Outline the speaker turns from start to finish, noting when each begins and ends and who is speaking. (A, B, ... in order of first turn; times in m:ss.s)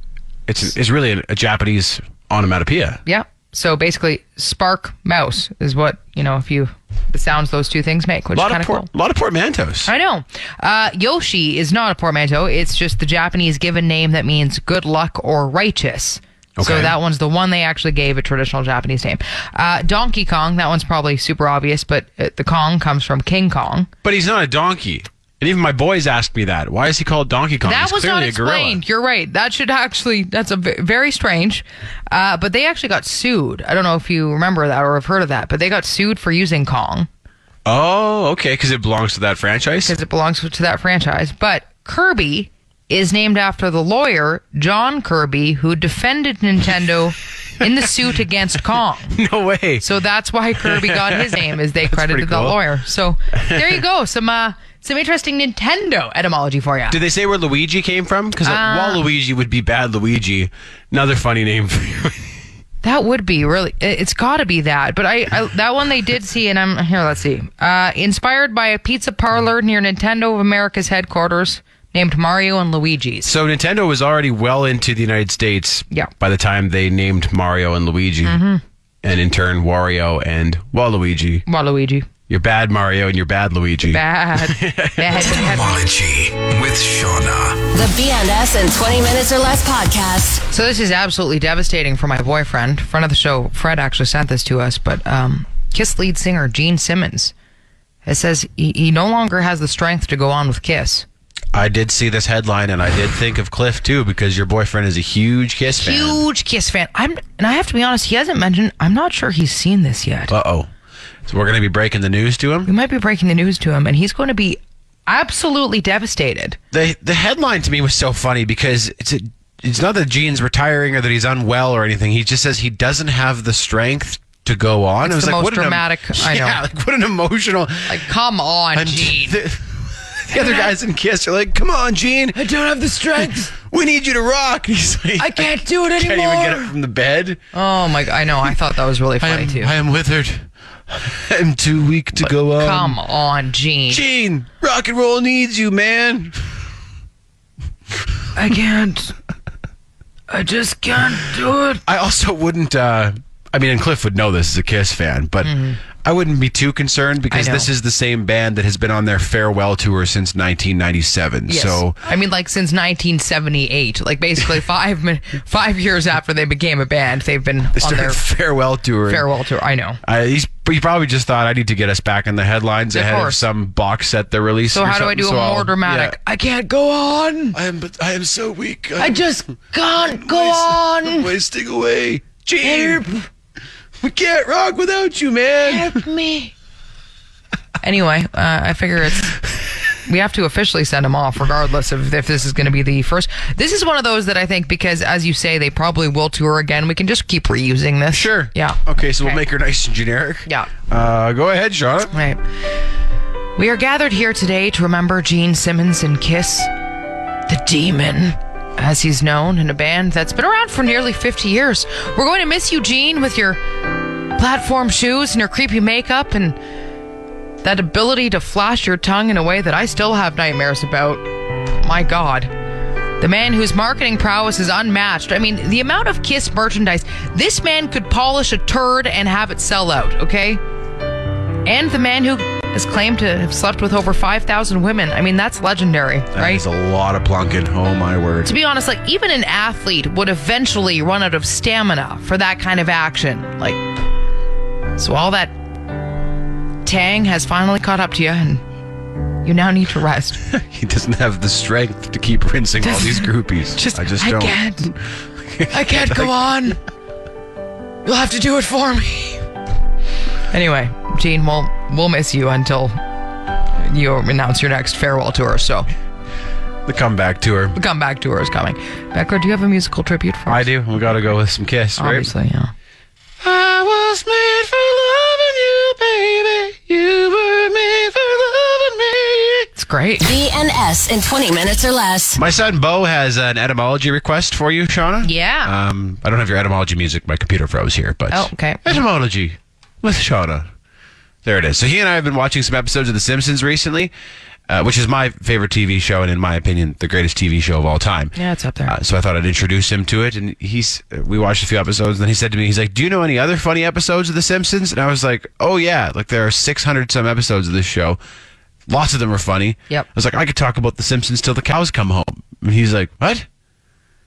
0:00.5-0:03.0 A
0:03.0-0:08.9 B
0:08.3-0:09.9 A
0:09.8-0:23.9 B
0:16.6-0:17.0 A
0:24.0-0:28.8 A
0:27.6-0:37.1 B
0:37.6-0:40.0 A
0:39.8-0:49.2 B
0:49.1-0:49.8 A
0:49.8-0:57.0 B
0:50.6-0:52.6 A
0:53.4-0:53.8 A
0:56.9-1:02.3 A
0:58.4-0:59.0 B
1:02.8-1:13.3 B
1:13.2-1:18.4 A
1:18.2-1:18.6 B
1:19.0-1:21.4 A
1:21.5-1:22.1 B
1:22.3-1:27.5 A
1:23.9-1:25.8 B
1:27.6-1:30.4 C
1:30.5-1:37.3 B
1:38.0-1:41.0 B
1:41.5-1:46.2 A
1:45.8-1:50.3 B
1:50.3-1:50.7 A
1:51.2-1:52.7 A
1:52.6-1:56.6 B
1:56.7-2:08.0 A
2:05.0-2:06.6 B
2:07.9-2:09.4 B
2:08.7-2:12.4 A
2:10.3-2:10.7 B
2:12.3-2:13.5 B
2:13.2-2:17.4 A
2:15.2-2:16.7 B
2:17.5-2:19.7 B
2:19.2-2:23.0 A
2:22.2-2:24.0 B
2:23.9-2:26.5 A
2:28.3-2:29.1 B
2:30.3-2:31.8 B
2:31.8-2:42.0 A
2:35.4-2:35.8 B
2:37.3-2:37.7 B
2:41.5-2:48.2 B
2:47.8-2:49.3 A
2:49.1-2:50.0 B
2:50.0-2:56.2 A
2:52.9-2:53.4 B
2:54.7-2:57.6 B
2:57.5-2:59.3 A
2:59.0-3:01.3 B
3:00.0-3:03.1 A
3:02.6-3:03.3 B
3:04.0-3:06.0 A
3:05.6-3:06.5 B
3:07.8-3:09.4 B
3:10.0-3:19.4 B
3:18.1-3:22.1 A
3:20.4-3:20.7 B
3:22.1-3:22.4 B
3:23.6-3:26.7 B
3:27.5-3:33.6 B
3:34.4-3:36.6 B
3:37.6-3:41.2 B
3:41.8-3:42.5 B
3:43.2-3:50.6 B
3:51.6-3:56.6 B
3:56.3-3:58.5 A
3:58.4-4:03.8 B
4:05.0-4:05.5 B
4:06.8-4:08.6 B
4:09.4-4:10.4 B
4:10.4-4:16.3 A
4:12.8-4:14.9 B
4:15.7-4:16.8 B
4:18.0-4:19.4 B
4:20.5-4:23.0 B
4:23.8-4:25.9 B
4:26.8-4:27.8 A
4:27.7-4:30.6 B
4:30.5-4:32.3 A
4:32.0-4:32.7 B
4:33.4-4:39.7 A
4:39.8-4:40.3 B
4:40.2-4:42.4 C
4:42.4-4:50.7 A
4:45.2-4:45.7 B
4:48.3-4:49.0 B
4:51.4-4:54.1 A
4:54.7-4:58.4 A
4:58.4-4:59.0 B
4:58.9-5:08.2 A
5:08.9-5:13.5 A